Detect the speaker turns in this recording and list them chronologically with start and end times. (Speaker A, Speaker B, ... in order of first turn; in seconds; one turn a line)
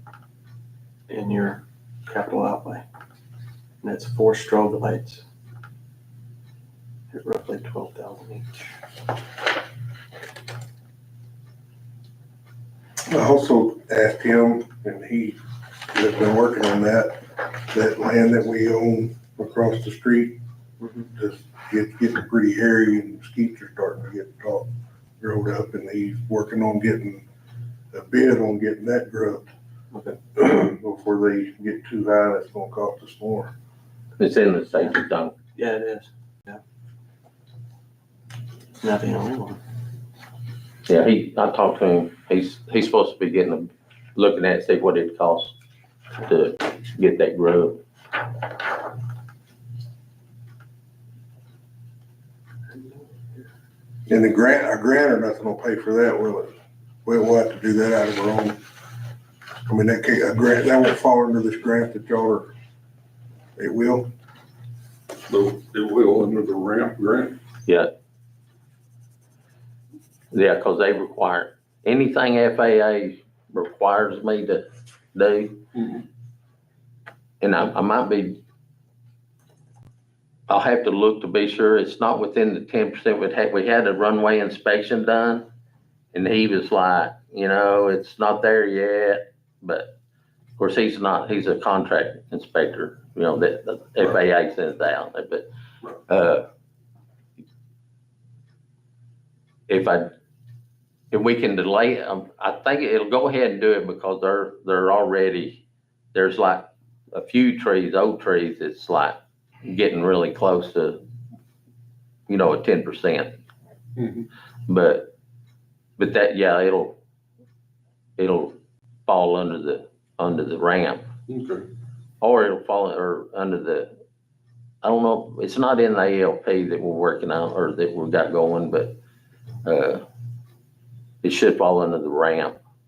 Speaker A: 1.1-2.8
Speaker A: 3.8-5.2
Speaker A: 7.1-8.7
Speaker B: 13.1-15.4
Speaker B: 15.9-20.4
Speaker A: 20.8-21.1
Speaker B: 21.1-24.7
Speaker B: 25.2-27.2
Speaker B: 27.9-29.5
Speaker A: 29.9-30.2
Speaker B: 30.4-33.5
Speaker C: 34.2-35.3
Speaker A: 35.5-36.6
Speaker A: 38.8-39.6
Speaker C: 40.9-45.5
Speaker C: 46.2-47.8
Speaker A: 52.7-53.5
Speaker B: 54.1-56.5
Speaker B: 57.0-58.6
Speaker B: 59.6-62.5
Speaker B: 63.6-64.1
Speaker D: 65.3-67.4
Speaker C: 67.7-67.9
Speaker C: 70.3-75.6
Speaker D: 75.8-76.0
Speaker C: 77.4-78.4
Speaker C: 80.5-85.5
Speaker C: 86.1-89.9
Speaker C: 90.6-95.5
Speaker C: 96.1-96.5
Speaker C: 99.7-100.1
Speaker C: 101.1-111.0
Speaker C: 112.3-113.3
Speaker D: 114.0-114.2
Speaker C: 114.7-115.1
Speaker C: 116.0-117.0
Speaker C: 118.2-118.5
Speaker C: 119.1-121.0
Speaker D: 121.3-121.6
Speaker C: 122.2-123.9
Speaker C: 124.8-128.9
Speaker C: 129.6-130.0
Speaker C: 131.2-132.6